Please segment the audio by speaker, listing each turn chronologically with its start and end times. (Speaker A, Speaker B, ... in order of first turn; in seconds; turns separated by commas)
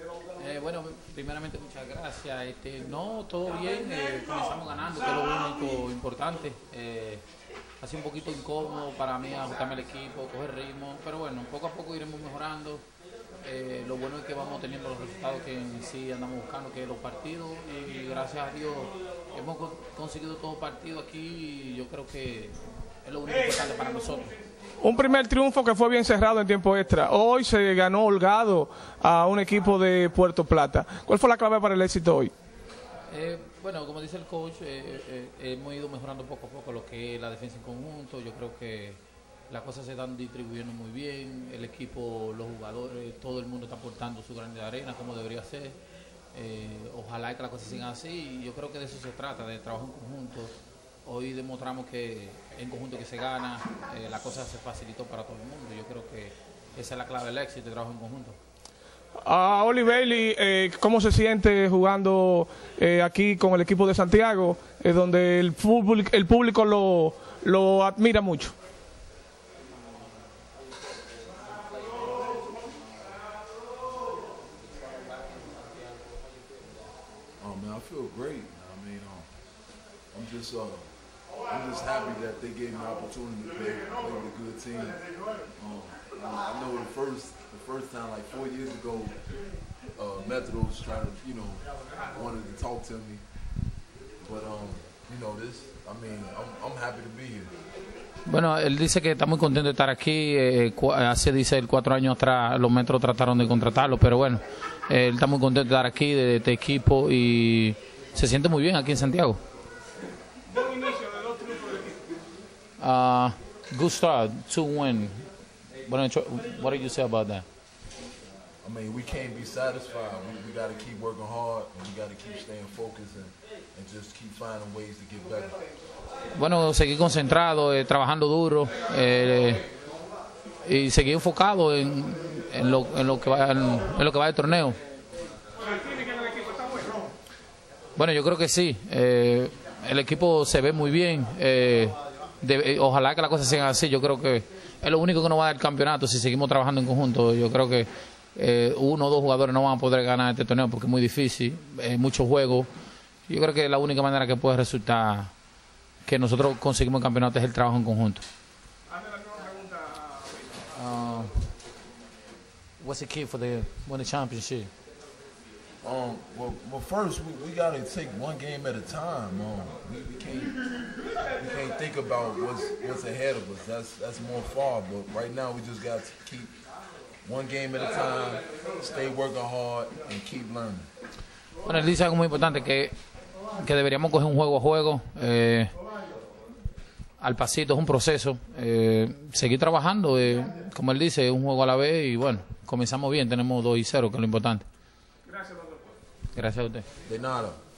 Speaker A: 0.3-7.2, Speaker A: 7.8-12.8, Speaker A: 13.4-24.3, Speaker B: 24.8-32.3, Speaker A: 33.1-45.8, Speaker A: 46.3-50.5, Speaker A: 51.0-58.4, Speaker B: 59.2-68.5, Speaker A: 71.9-72.7, Speaker A: 75.1-75.4, Speaker C: 77.4-79.3, Speaker C: 80.1-80.9, Speaker C: 81.5-85.0, Speaker C: 85.6-89.2, Speaker C: 90.0-93.2, Speaker C: 94.2-97.5, Speaker A: 98.2-109.4, Speaker B: 110.5-112.0, Speaker A: 112.8-115.2, Speaker A: 115.8-117.5, Speaker C: 118.6-125.5, Speaker A: 126.3-129.6, Speaker A: 130.6-134.8, Speaker B: 135.7-136.9, Speaker A: 137.9-152.7, Speaker A: 153.3-155.3, Speaker A: 156.0-158.2, Speaker B: 158.9-160.2, Speaker A: 160.7-161.3, Speaker A: 162.8-164.7, Speaker C: 165.8-170.6, Speaker C: 171.4-176.5, Speaker C: 177.2-180.9, Speaker A: 181.6-182.9, Speaker A: 183.5-185.7, Speaker A: 187.2-194.6, Speaker B: 195.3-195.8, Speaker A: 196.3-196.8, Speaker C: 197.1-197.6